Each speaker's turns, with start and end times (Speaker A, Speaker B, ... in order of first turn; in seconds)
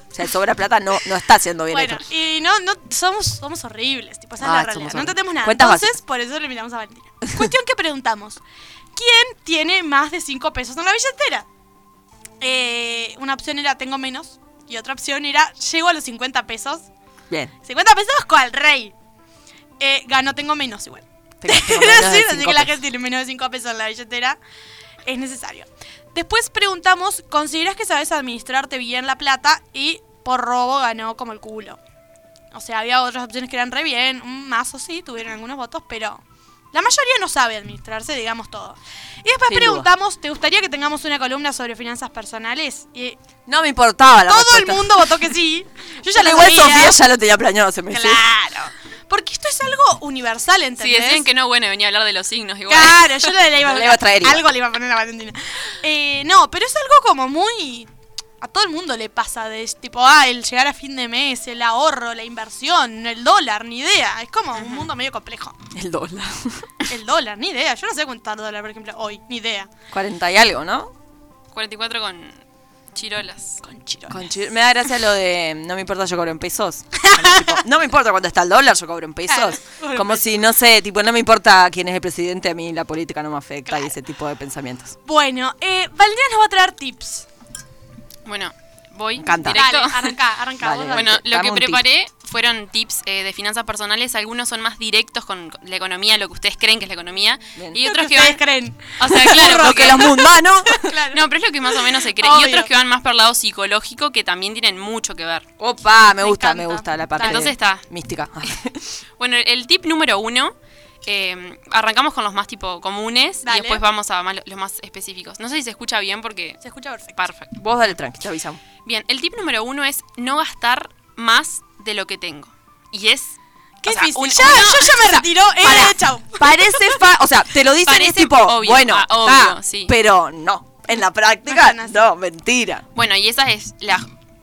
Speaker A: 0.1-2.0, 4.4-6.0, 21.4-22.8, 39.5-39.9, 43.5-45.0, 46.1-48.2, 53.6-54.4, 65.7-66.7, 69.9-70.9, 74.1-85.0, 89.2-89.6, 90.6-91.8, 99.3-100.9, 105.6-108.8, 117.6-118.6, 125.0-132.8
Speaker B: 1.7-8.4, 9.0-11.5, 12.4-16.9, 17.7-18.9, 19.8-24.4, 25.1-31.8, 32.5-36.2, 36.7-43.2, 44.3-47.0, 47.9-51.3, 52.7-57.9, 58.4-65.6, 66.9-69.7, 73.6-74.3, 77.0-77.6, 79.3-80.4, 83.7-83.9, 85.0-87.3, 89.5-91.1, 97.8-101.3, 102.0-102.7, 106.2-107.5, 113.5-113.8, 116.6-117.1, 123.8-127.0, 131.4-132.1
Speaker C: 50.8-53.1, 64.5-64.9, 71.5-72.4, 73.0-73.6, 88.2-90.1, 90.9-98.4, 99.0-100.1, 101.1-105.5, 107.2-107.8, 109.2-116.6, 117.1-117.5, 118.8-125.0, 127.9-129.9, 132.9-134.1